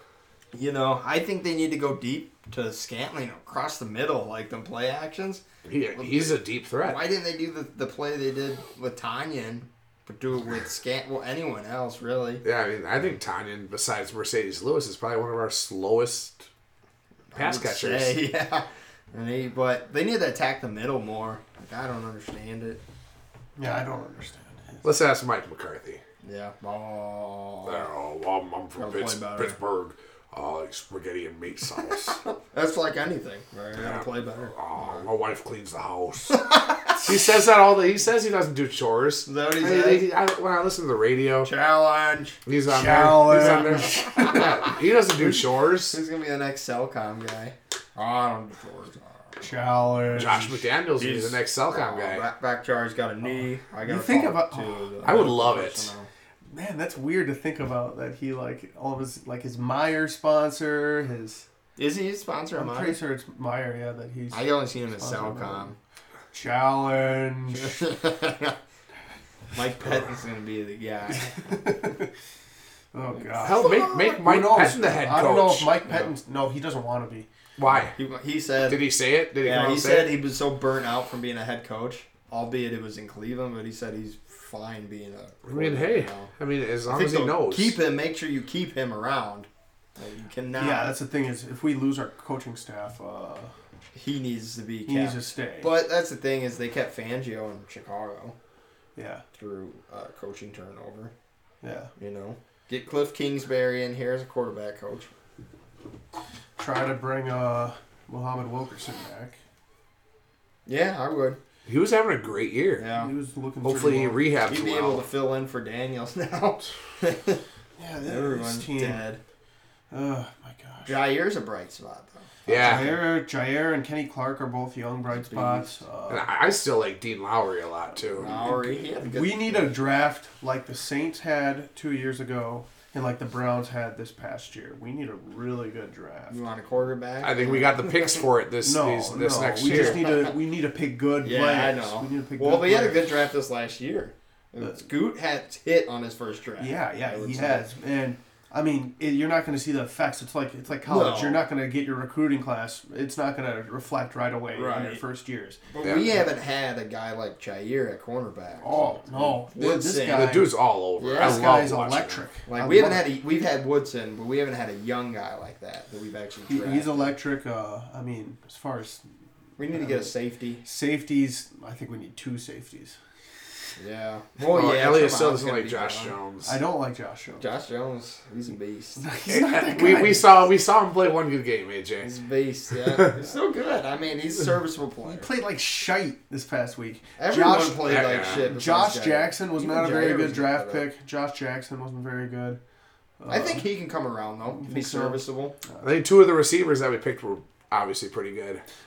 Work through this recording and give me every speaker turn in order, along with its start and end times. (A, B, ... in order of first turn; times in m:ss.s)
0:00.5-0:05.4 A
0:05.6-0:07.0 B
0:06.0-0:12.4 A
0:12.4-0:16.5 B
0:17.3-0:22.8 A
0:17.3-0:18.2 B
0:23.6-0:24.8 C
0:24.8-0:26.0 B
0:26.2-0:27.8 A
0:27.6-0:32.2 B
0:28.8-0:29.6 A
0:31.9-0:35.0 A
0:33.8-0:41.5 B
0:36.3-0:37.1 A
0:39.2-0:40.1 A
0:41.4-0:42.4 A
0:42.4-0:46.0 B
0:42.7-0:44.5 C
0:43.3-0:50.2 A
0:49.4-0:50.6 C
0:50.1-0:52.2 B
0:51.0-0:56.1 A
0:53.8-0:54.8 C
0:55.0-0:55.9 B
0:56.5-1:01.5 C
1:01.8-1:03.0 A
1:02.5-1:05.7 C
1:04.3-1:05.8 A
1:06.3-1:07.9 C
1:07.5-1:08.6 A
1:09.5-1:11.7 A
1:11.3-1:12.1 C
1:12.9-1:17.3 C
1:13.2-1:14.2 A
1:13.4-1:15.7 B
1:17.6-1:17.9 B
1:17.6-1:18.8 A
1:18.7-1:20.1 B
1:19.4-1:26.3 A
1:25.5-1:27.8 B
1:26.9-1:30.9 A
1:30.5-1:33.5 C
1:33.9-1:38.4 A
1:34.8-1:35.7 C
1:39.0-1:39.2 C
1:39.3-1:41.1 A
1:41.6-1:41.9 C
1:42.0-1:45.1 A
1:46.6-1:49.4 C
1:50.6-1:51.4 A
1:51.6-1:52.8 B
1:52.8-1:53.1 A
1:52.9-1:54.2 C
1:53.6-1:55.0 B
1:54.5-1:57.4 A
1:57.8-1:59.0 C
1:58.0-1:59.2 A
1:59.9-2:01.0 C
2:00.8-2:03.0 A
2:02.4-2:03.0 B
2:02.5-2:06.2 C
2:05.1-2:05.8 A
2:06.1-2:08.3 B
2:08.0-2:16.4 C
2:08.2-2:09.8 A
2:16.3-2:18.2 A
2:17.2-2:20.0 B
2:18.6-2:23.0 C
2:19.6-2:20.3 A
2:21.2-2:27.7 A
2:26.6-2:35.6 C
2:30.8-2:31.4 A
2:34.5-2:35.0 A
2:35.7-2:40.4 A
2:38.6-2:40.5 C
2:40.1-2:42.2 B
2:41.0-2:41.5 A
2:41.2-2:43.1 C
2:42.5-2:47.1 A
2:46.5-2:49.0 C
2:49.6-2:50.6 A
2:49.7-2:50.1 C
2:50.6-2:53.0 C
2:53.8-2:56.1 A
2:54.5-2:56.6 B
2:56.4-2:57.5 C
2:57.4-2:59.0 A
2:59.0-3:00.3 C
2:59.3-3:02.1 B
3:02.0-3:05.3 A
3:02.7-3:03.1 B
3:05.0-3:12.6 C
3:07.2-3:10.8 A
3:07.8-3:08.4 B
3:13.2-3:13.7 C
3:13.3-3:15.6 A
3:14.5-3:15.9 C
3:15.8-3:18.6 B